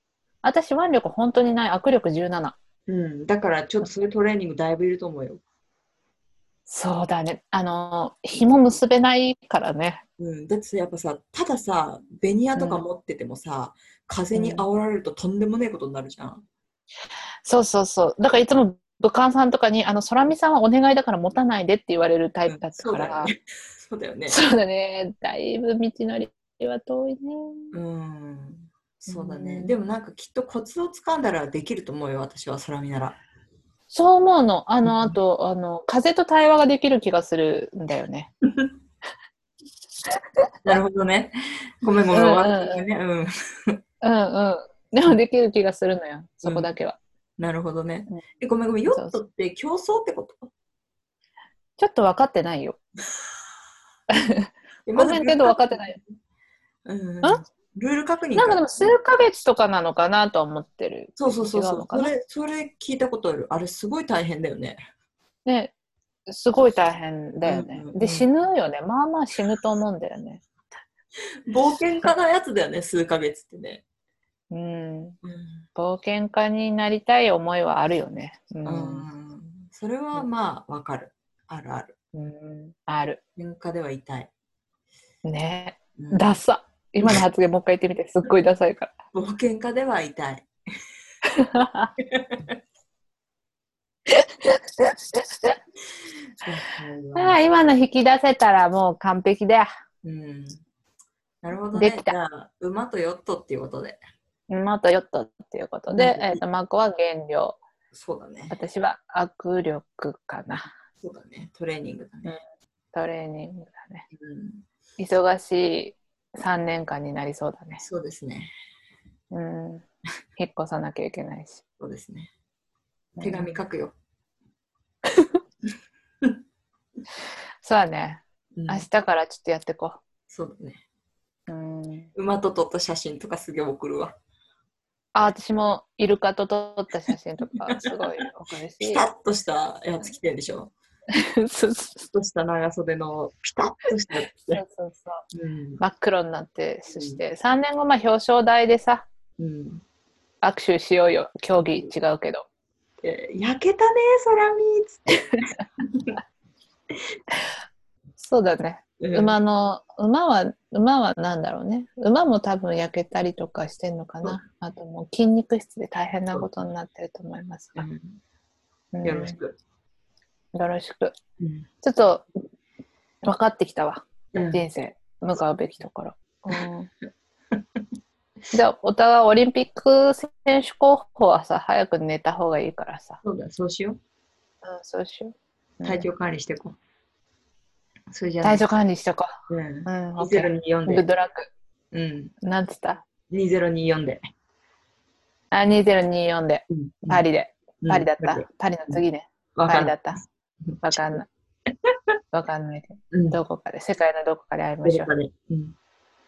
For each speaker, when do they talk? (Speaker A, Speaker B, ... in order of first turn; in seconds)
Speaker A: 0.4-2.5, 6.7-10.0, 12.6-12.8, 14.3-14.7, 17.4-23.3, 24.3-27.7, 29.1-29.8, 33.9-38.3, 42.1-42.8, 44.0-47.0, 48.9-49.2, 51.8-52.8, 54.1-56.0, 58.3-62.1, 65.5-65.7, 66.3-70.4, 74.5-75.2, 75.7-79.1, 82.1-83.2, 85.2-88.9, 91.4-91.9, 94.2-95.5, 97.2-99.7, 101.8-102.2, 104.5-107.6, 108.5-110.7, 112.9-114.0, 115.0-117.8, 119.3-119.8, 120.4-121.6, 123.2-123.6, 127.6-130.0, 131.5-132.1, 135.1-139.0, 141.4-142.1, 144.4-145.2, 145.8-149.1, 150.4-152.4, 158.2-167.8, 168.9-169.3, 170.5-171.1, 171.8-172.4, 173.2-176.9, 178.5-183.2, 184.6-186.1, 188.4-191.5, 192.4-193.0, 195.5-200.2, 200.8-201.3, 202.3-205.1
Speaker B: 2.9-5.4, 10.2-16.4, 22.5-24.4, 27.7-33.2, 34.8-35.2, 40.6-43.8, 46.4-46.7, 47.4-50.5, 54.9-56.1, 56.9-59.0, 61.2-64.8, 67.4-68.3, 71.5-73.8, 75.2-75.6, 78.6-81.9, 83.3-84.3, 86.0-86.4, 89.1-90.5, 92.0-92.5, 96.4-97.4, 100.0-100.6, 101.4-104.0, 105.9-106.4, 107.9-108.5, 111.0-112.4, 114.1-114.6, 117.8-118.5, 121.8-122.3, 123.2-123.9, 128.5-128.9, 130.3-130.8, 132.1-134.2, 138.8-140.7, 142.1-144.6, 145.3-145.8, 146.9-147.2, 149.4-149.8, 151.5-151.8, 153.0-156.2, 159.0-159.4, 167.8-168.2, 169.0-169.6, 171.4-171.7, 174.3-174.6, 183.2-184.0, 185.8-186.8, 188.1-188.7, 189.5-191.1, 191.9-192.3, 193.3-194.2, 196.7-197.2, 197.8-199.0, 199.5-200.0, 200.6-200.9, 203.1-203.4, 204.8-205.7